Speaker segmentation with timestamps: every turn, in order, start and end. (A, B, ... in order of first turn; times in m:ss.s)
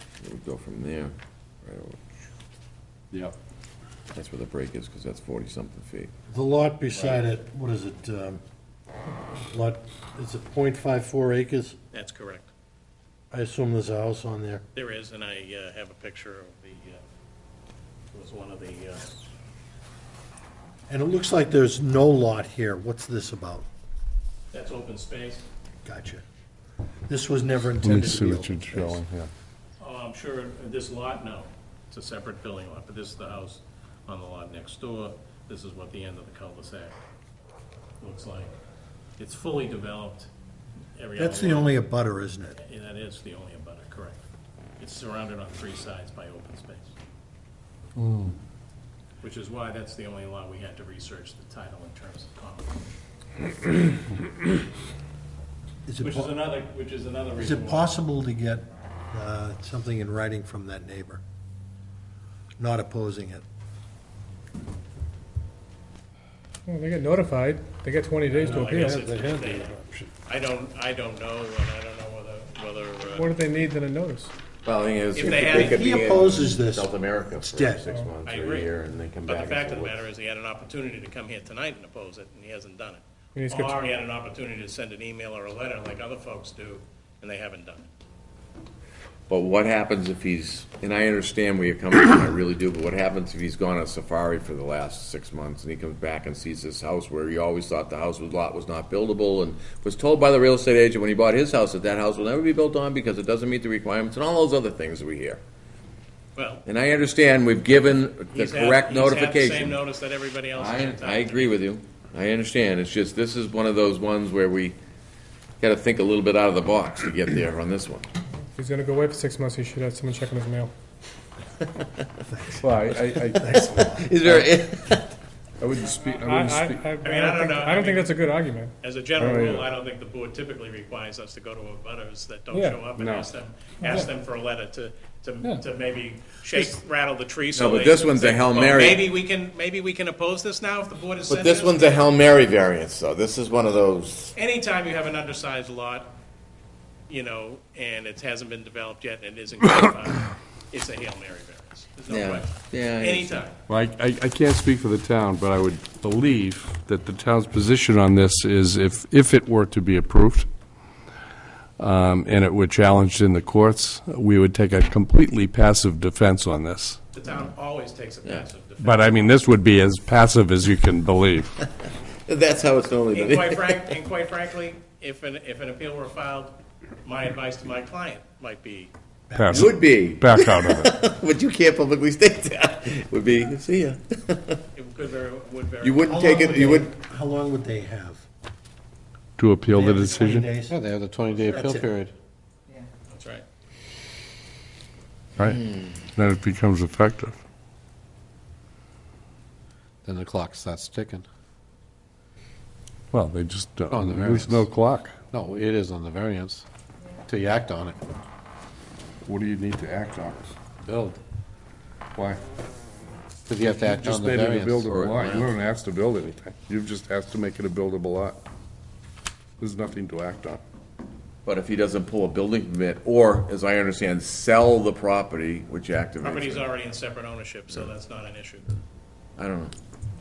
0:00.2-0:01.1 A
0:01.6-0:02.0 A
0:04.1-0:06.1 A
0:06.3-0:08.4 B
0:09.5-0:11.8 B
0:11.9-0:12.5 C
0:13.3-0:14.6 B
0:14.8-0:17.0 C
0:18.1-0:19.2 C
0:20.9-0:23.7 B
0:24.5-0:25.4 C
0:25.8-0:26.2 B
0:27.1-0:29.0 B
0:27.8-0:29.3 D
0:29.8-0:37.0 C
0:38.0-0:38.6 C
0:39.2-0:40.3 C
0:41.0-0:41.8 C
0:41.2-0:42.6 B
0:42.6-0:44.2 C
0:44.8-0:46.9 C
0:48.0-0:48.3 D
0:49.2-0:52.8 C
0:55.9-0:56.4 B
0:56.0-0:58.0 C
0:57.4-1:01.2 B
1:02.6-1:03.4 B
1:06.7-1:09.4 E
1:08.3-1:09.8 C
1:08.5-1:10.1 D
1:10.3-1:13.3 C
1:13.2-1:14.3 E
1:14.6-1:20.0 A
1:15.2-1:15.8 C
1:15.2-1:17.8 B
1:18.2-1:18.7 C
1:19.3-1:27.9 C
1:23.4-1:23.8 E
1:29.3-1:45.4 A
1:46.4-1:46.6 C
1:46.7-1:49.8 A
1:48.3-1:51.6 C
1:50.5-1:54.8 A
1:55.6-1:58.1 A
1:58.6-2:00.7 E
2:02.2-2:04.2 B
2:02.6-2:03.6 D
2:03.9-2:05.1 A
2:04.2-2:04.5 D
2:05.6-2:06.8 D
2:06.2-2:08.7 E
2:07.0-2:08.2 C
2:08.8-2:22.1 C
2:09.2-2:09.5 D
2:12.5-2:12.9 E
2:13.0-2:13.2 D
2:17.5-2:19.0 A
2:21.3-2:24.3 A
2:24.4-2:26.2 C
2:27.1-2:33.6 C
2:32.1-2:33.4 A
2:33.7-2:40.5 D
2:41.8-2:47.0 D
2:47.1-2:49.3 C
2:48.8-2:51.6 D
2:52.3-2:53.9 A
2:53.1-2:58.9 C
2:59.3-2:59.8 B
2:59.4-3:01.0 D
2:59.5-3:04.6 A
3:04.8-3:06.4 C
3:05.8-3:06.9 A
3:06.1-3:08.3 B
3:09.4-3:10.5 D
3:09.7-3:10.8 B
3:10.7-3:12.1 F
3:11.5-3:11.9 B
3:13.1-3:13.4 C
3:15.4-3:17.4 D
3:20.0-3:21.3 F
3:23.1-3:25.2 D
3:23.9-3:24.7 F
3:25.3-3:26.7 F
3:27.2-3:28.0 F
3:29.2-3:30.6 D
3:30.8-3:31.2 F
3:32.2-3:32.4 D
3:33.5-3:34.9 F
3:33.6-3:38.4 D
3:34.9-3:35.6 A
3:39.6-3:40.6 D
3:41.5-3:46.7 A
3:46.2-3:48.8 C
3:49.4-3:49.7 A